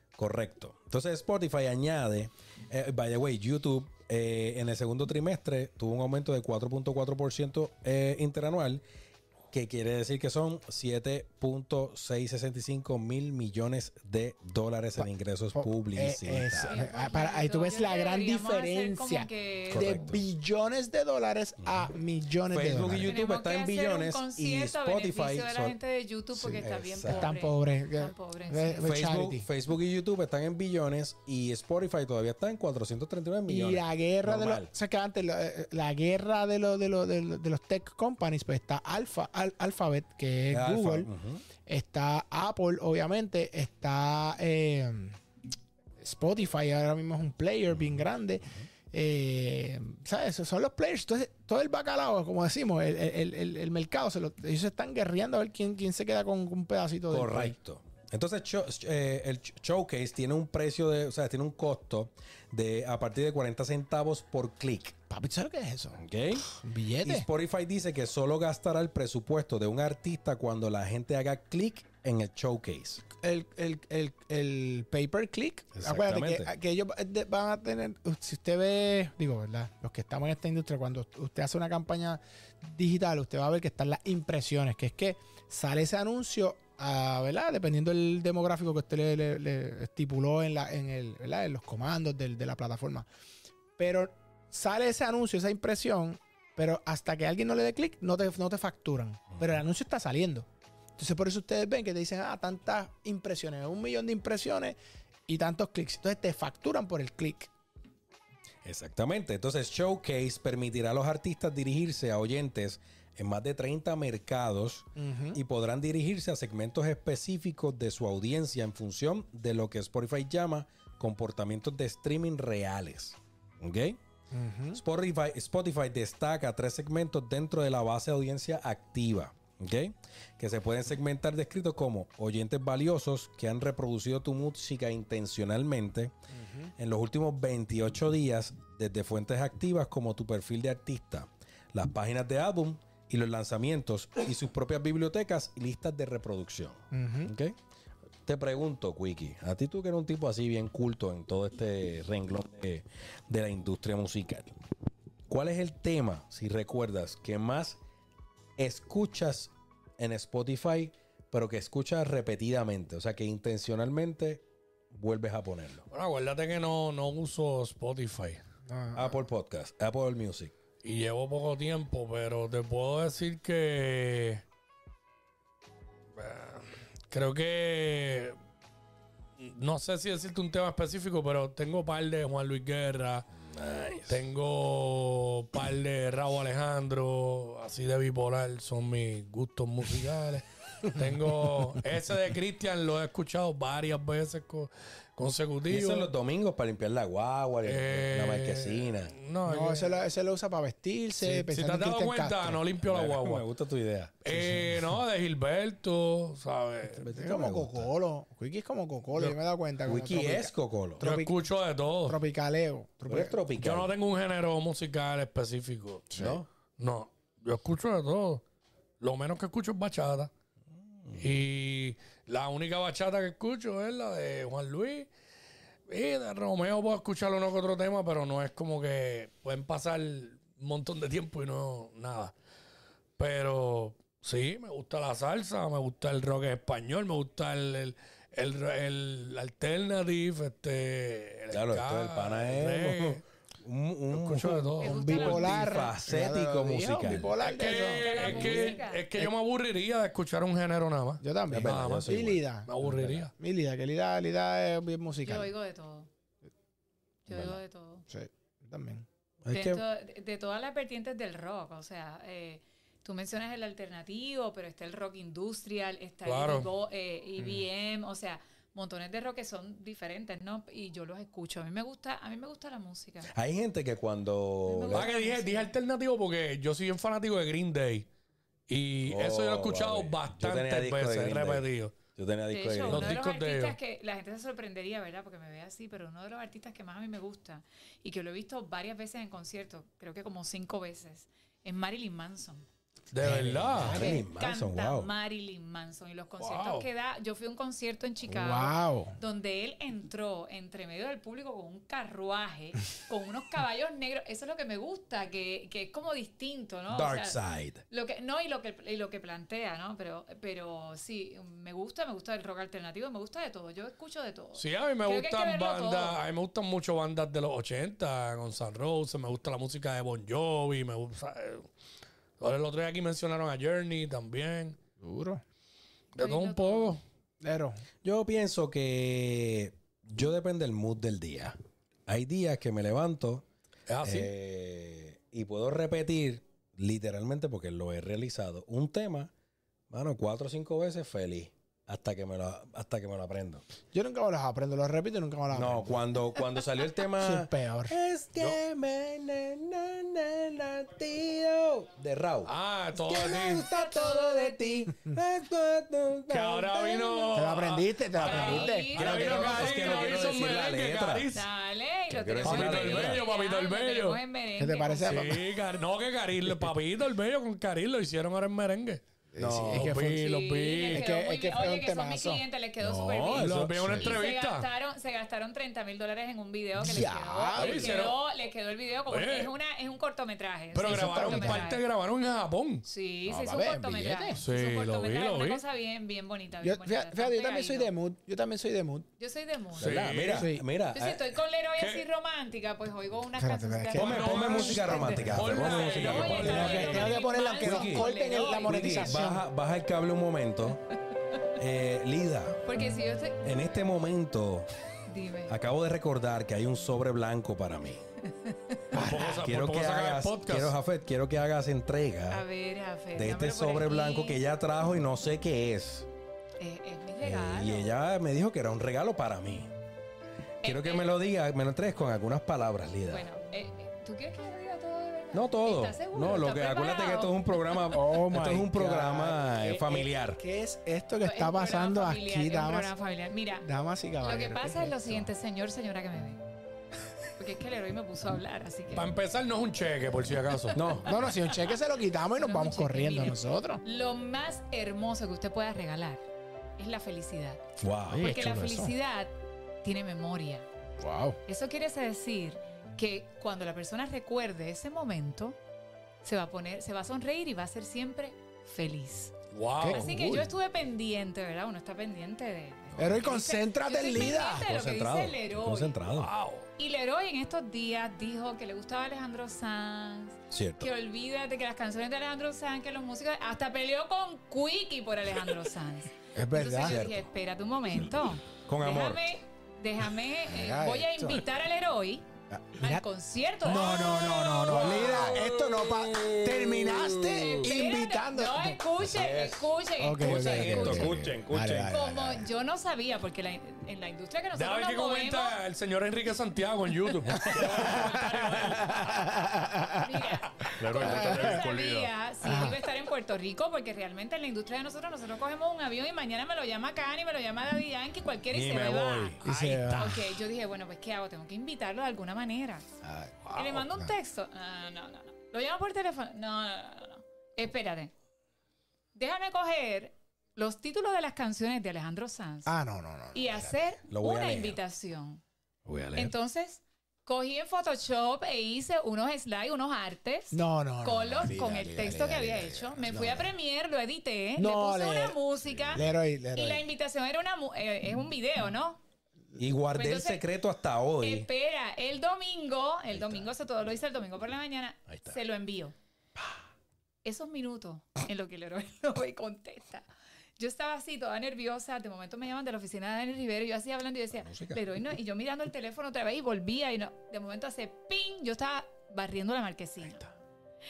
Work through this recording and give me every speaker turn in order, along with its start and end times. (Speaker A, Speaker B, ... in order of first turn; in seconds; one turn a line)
Speaker A: 0.2-8.8
Speaker A: 9.5-16.8
Speaker B: 15.0-23.1
Speaker C: 16.6-20.1
Speaker A: 19.7-20.2
Speaker A: 22.5-25.8
Speaker C: 23.0-28.9
Speaker B: 26.5-29.5
Speaker A: 26.5-27.3
Speaker A: 28.8-34.7
Speaker B: 33.5-41.1
Speaker A: 40.5-41.4
Speaker B: 41.6-45.2
Speaker B: 46.0-57.5
Speaker A: 57.1-65.0
Speaker B: 65.1-67.3
Speaker A: 66.0-73.0
Speaker B: 73.2-93.1
Speaker A: 75.8-76.5
Speaker B: 93.8-107.5
Speaker A: 108.6-124.0
Speaker B: 115.0-115.4
Speaker B: 124.3-124.8
Speaker A: 124.7-136.2
Speaker B: 136.3-136.7
Speaker A: 136.8-147.6
Speaker B: 146.9-147.3
Speaker A: 148.3-154.5
Speaker A: 155.3-157.8
Speaker A: 158.6-165.8
Speaker D: 165.9-168.4
Speaker B: 168.7-169.2
Speaker A: 168.9-170.5
Speaker D: 170.8-174.4
Speaker D: 176.2-178.4
Speaker D: 179.4-183.3
Speaker A: 183.4-184.2
Speaker D: 184.1-196.1
Speaker A: 195.7-199.2
Speaker D: 197.7-200.1
Speaker B: 199.5-202.6
Speaker D: 201.2-203.4
Speaker A: 202.8-204.4
Speaker D: 204.2-207.0
Speaker A: 207.0-207.9
Speaker B: 207.0-211.3
Speaker A: 209.8-211.1
Speaker D: 211.0-212.2
Speaker B: 212.1-213.4
Speaker A: 213.1-213.9
Speaker D: 213.6-216.1
Speaker B: 216.1-216.4
Speaker A: 216.2-216.5
Speaker D: 216.8-218.4
Speaker D: 219.0-220.3
Speaker A: 221.0-221.3
Speaker D: 221.2-225.1
Speaker D: 225.9-232.3
Speaker D: 233.2-243.2
Speaker A: 241.5-247.4
Speaker D: 244.1-245.4
Speaker C: 244.8-245.9
Speaker B: 244.8-249.3
Speaker D: 247.4-252.1
Speaker C: 247.6-249.1
Speaker B: 251.2-252.7
Speaker A: 251.5-253.3
Speaker D: 252.7-253.3
Speaker B: 253.4-255.5
Speaker C: 255.2-256.1
Speaker C: 257.3-258.1
Speaker B: 258.1-259.1
Speaker A: 259.4-259.8
Speaker C: 259.5-273.3
Speaker D: 266.2-266.7
Speaker A: 273.3-275.1
Speaker C: 274.6-275.7
Speaker D: 274.9-278.1
Speaker D: 278.7-282.0
Speaker A: 279.1-283.2
Speaker C: 282.5-292.7
Speaker D: 282.9-283.8
Speaker D: 293.1-294.0
Speaker B: 293.2-294.2
Speaker A: 293.7-295.1
Speaker C: 293.9-316.2
Speaker D: 296.4-296.9
Speaker B: 298.3-299.2
Speaker A: 306.9-307.8
Speaker D: 314.6-321.7
Speaker D: 322.4-324.8
Speaker B: 325.0-325.4
Speaker D: 326.2-327.0
Speaker C: 326.2-327.0
Speaker B: 327.4-327.8
Speaker A: 328.0-333.4
Speaker D: 333.9-334.3
Speaker A: 334.0-339.3
Speaker A: 339.9-343.6
Speaker B: 343.9-346.0
Speaker A: 345.5-357.3
Speaker B: 347.2-347.9
Speaker D: 352.5-353.7
Speaker C: 353.2-354.9
Speaker D: 356.3-361.5
Speaker B: 357.3-358.9
Speaker C: 358.2-360.5
Speaker A: 358.3-361.3
Speaker C: 361.3-365.4
Speaker A: 362.1-363.2
Speaker D: 362.4-364.2
Speaker B: 364.6-365.5
Speaker D: 365.0-369.0
Speaker B: 369.3-372.4
Speaker A: 369.4-369.9
Speaker D: 369.6-371.1
Speaker C: 370.1-381.8
Speaker A: 372.8-374.1
Speaker D: 373.3-374.7
Speaker B: 376.8-378.1
Speaker D: 377.6-378.2
Speaker D: 379.1-379.5
Speaker D: 380.7-382.9
Speaker B: 380.9-381.7
Speaker C: 382.9-387.9
Speaker B: 383.3-384.4
Speaker D: 384.4-385.6
Speaker B: 386.6-389.1
Speaker C: 389.2-390.2
Speaker A: 389.8-391.4
Speaker D: 389.8-390.5
Speaker B: 390.3-390.6
Speaker C: 390.9-399.3
Speaker D: 391.8-392.1
Speaker B: 393.4-395.5
Speaker A: 393.9-397.1
Speaker D: 394.0-397.2
Speaker B: 396.1-399.4
Speaker A: 397.6-400.8
Speaker A: 401.6-402.6
Speaker C: 402.6-403.6
Speaker A: 403.4-404.7
Speaker C: 405.1-405.6
Speaker A: 405.5-408.0
Speaker C: 408.3-408.9
Speaker A: 408.9-412.4
Speaker D: 408.9-410.8
Speaker C: 412.3-414.4
Speaker A: 413.1-416.1
Speaker C: 416.6-417.9
Speaker A: 417.2-419.7
Speaker C: 420.6-421.2
Speaker A: 420.6-423.3
Speaker C: 423.1-427.9
Speaker A: 425.3-430.4
Speaker B: 427.9-432.9
Speaker C: 431.2-433.7
Speaker B: 433.6-435.3
Speaker C: 434.2-436.4
Speaker C: 437.4-439.1
Speaker D: 438.9-440.8
Speaker A: 440.7-441.4
Speaker B: 441.1-443.8
Speaker C: 442.4-446.2
Speaker C: 446.8-447.6
Speaker A: 447.8-448.4
Speaker B: 448.1-448.9
Speaker C: 448.2-450.7
Speaker B: 451.0-451.4
Speaker C: 451.5-455.6
Speaker C: 456.2-459.3
Speaker D: 459.5-460.1
Speaker B: 459.8-460.5
Speaker C: 459.9-466.1
Speaker A: 463.0-463.3
Speaker B: 463.0-464.7
Speaker A: 464.1-466.3
Speaker D: 466.2-466.7
Speaker C: 466.8-482.2
Speaker A: 470.5-470.9
Speaker B: 476.4-477.0
Speaker A: 476.8-477.3
Speaker A: 478.0-479.3
Speaker B: 480.5-481.4
Speaker B: 482.5-483.0
Speaker C: 482.8-485.5
Speaker B: 483.6-488.8
Speaker D: 484.7-486.3
Speaker C: 487.4-491.2
Speaker A: 489.0-491.9
Speaker B: 490.0-492.4
Speaker C: 491.9-495.6
Speaker D: 494.6-499.4
Speaker B: 497.4-500.1
Speaker C: 500.0-512.9
Speaker D: 500.6-502.1
Speaker B: 500.9-501.6
Speaker B: 502.4-502.8
Speaker A: 508.5-509.4
Speaker B: 509.4-510.3
Speaker B: 513.0-514.1
Speaker C: 513.5-518.1
Speaker C: 519.1-522.7
Speaker B: 522.7-523.8
Speaker C: 523.3-525.4
Speaker A: 524.1-524.8
Speaker A: 525.9-526.3
Speaker C: 526.1-539.0
Speaker B: 530.5-533.5
Speaker B: 534.6-535.4
Speaker A: 535.7-536.1
Speaker B: 535.9-536.9
Speaker A: 539.6-541.5
Speaker C: 540.0-540.5
Speaker C: 541.2-546.0
Speaker A: 543.1-543.5
Speaker A: 545.1-545.4
Speaker C: 547.2-550.1
Speaker C: 550.6-560.3
Speaker A: 554.3-554.8